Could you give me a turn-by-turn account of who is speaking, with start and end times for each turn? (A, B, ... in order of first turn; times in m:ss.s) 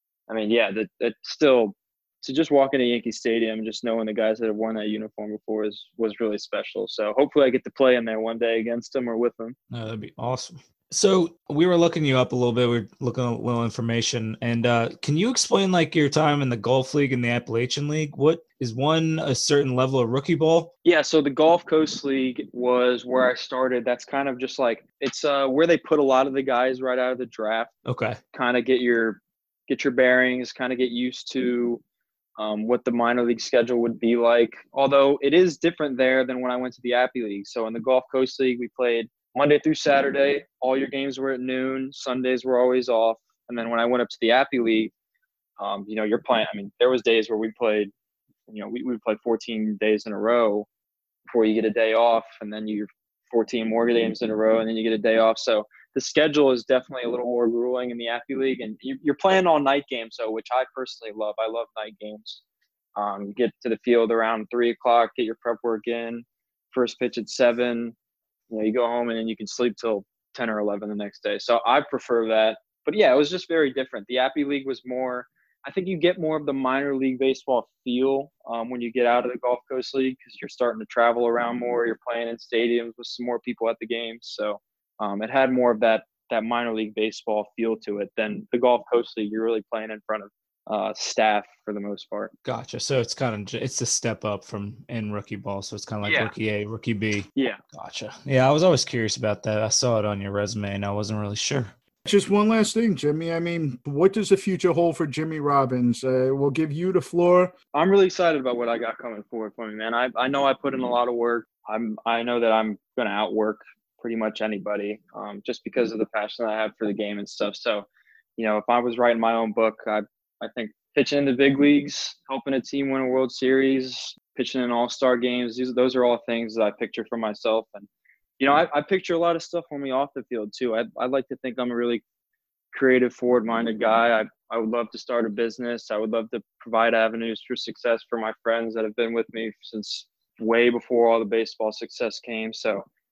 0:00.3-0:09.6 A
0:09.7-0:20.7 B
0:20.8-0:27.7 A
0:27.9-0:28.2 B
0:28.3-0:31.8 A
0:32.4-0:44.9 A
0:45.6-0:47.9 A
0:48.5-0:50.7 A
0:51.3-1:02.4 A
1:03.0-1:08.0 A
1:08.5-1:32.3 A
1:32.4-1:41.7 B
1:36.0-1:36.3 A
1:42.0-1:47.5 C
1:47.7-2:07.9 A
2:08.4-2:12.0 A
2:12.7-2:22.8 A